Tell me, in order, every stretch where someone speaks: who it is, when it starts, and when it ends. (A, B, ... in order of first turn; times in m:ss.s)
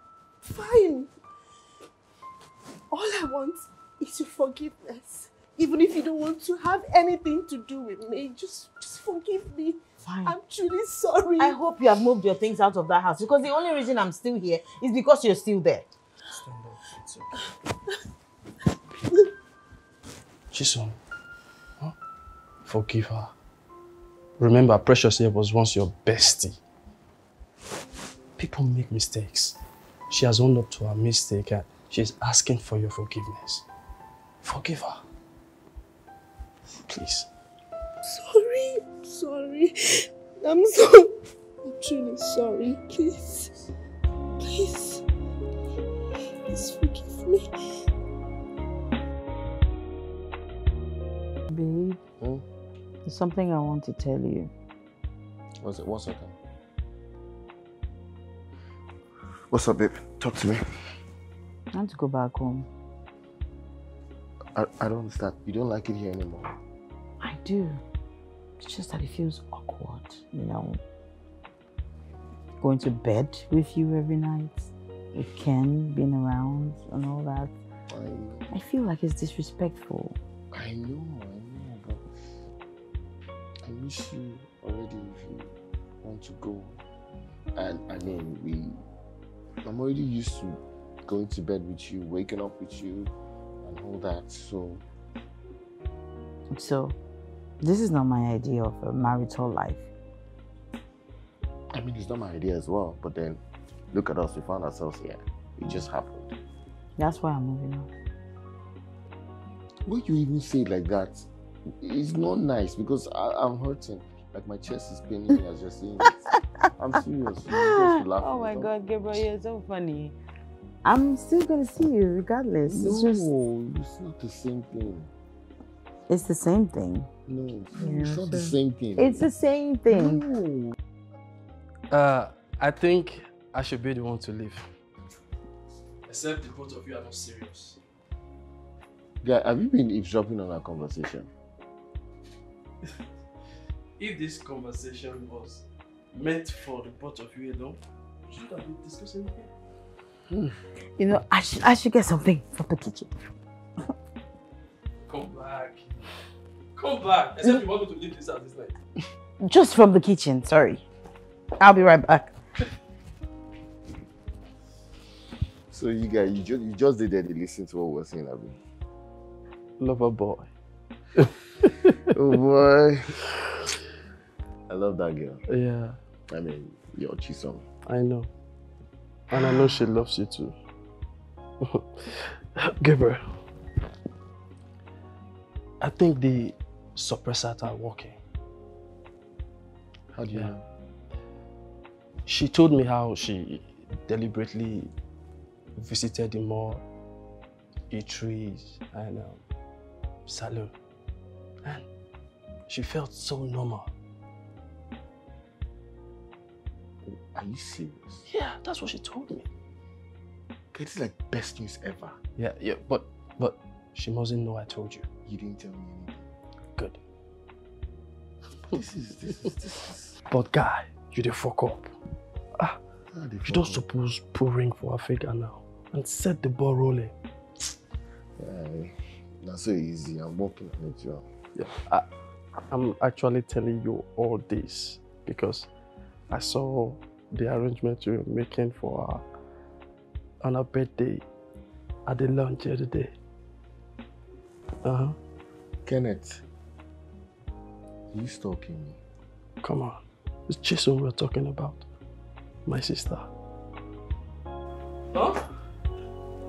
0:00.4-0:01.1 A
0:02.9-0:11.6 A
0:10.0-0:10.4 B
0:11.4-0:15.9 B
0:16.3-0:17.4 C
0:20.5-0:21.0 C
0:22.6-0:23.3 C
0:24.4-0:26.6 C
0:28.4-0:29.6 C
0:30.1-0:33.6 C
0:34.4-0:35.0 C
0:36.9-0:37.3 C
0:38.0-0:41.1 A
0:41.6-0:43.6 A
0:44.4-0:45.0 A
0:46.5-0:47.5 A
0:51.5-0:52.0 B
0:53.0-0:54.5 B
0:55.6-0:56.4 D
0:59.5-1:00.6 D
1:01.7-1:02.7 B
1:04.5-1:06.5 D
1:07.2-1:07.8 B
1:08.6-1:10.8 B
1:12.6-1:17.5 B
1:17.9-1:18.6 D
1:18.5-1:20.2 B
1:20.5-1:22.1 D
1:23.6-1:26.8 D
1:27.6-1:28.8 D
1:29.6-1:34.8 D
1:36.5-1:37.0 B
1:37.6-1:39.9 B
1:41.7-1:43.4 D
1:43.9-1:46.4 D
1:47.0-1:47.9 B
1:49.8-1:56.2 D
1:56.8-1:58.7 D
1:57.5-2:00.2 B
2:00.8-2:03.3 B
2:02.7-2:05.1 D
2:06.1-2:07.1 B
2:07.2-2:09.3 D
2:07.8-2:10.2 B
2:09.9-2:10.7 D
2:11.9-2:14.6 C
2:16.1-2:17.8 C
2:19.2-2:21.3 D
2:24.0-2:29.5 C
2:31.0-2:33.1 B
2:35.0-2:36.1 C
2:36.7-2:38.7 C
2:39.4-2:40.8 B
2:41.6-2:42.3 B
2:45.7-2:48.6 D
2:49.8-2:50.5 C
2:51.2-2:52.0 C
2:52.1-2:53.2 D
2:54.7-2:55.4 D
2:55.5-2:56.0 C
2:56.3-2:57.6 D
2:57.8-2:58.3 C
2:59.3-3:00.5 C
3:01.6-3:03.2 C
3:05.8-3:08.2 C
3:10.1-3:10.6 D
3:12.2-3:14.9 C
3:15.8-3:16.8 C
3:17.9-3:19.4 C
3:20.2-3:20.7 C
3:22.7-3:23.9 C
3:27.0-3:28.2 D
3:28.3-3:29.5 C
3:30.7-3:32.2 D
3:32.4-3:35.0 C
3:35.2-3:36.3 D
3:38.7-3:40.2 D
3:40.3-3:41.9 C
3:43.1-3:43.9 D
3:43.4-3:47.1 C
3:48.4-3:51.2 D
3:51.6-3:52.0 C
3:52.7-3:55.7 C
3:56.3-3:59.2 C
4:00.4-4:01.2 C
4:02.1-4:03.1 C
4:04.8-4:05.2 C
4:05.8-4:06.4 D
4:08.1-4:09.0 D
4:09.6-4:11.8 C
4:12.6-4:13.3 C
4:15.1-4:15.4 C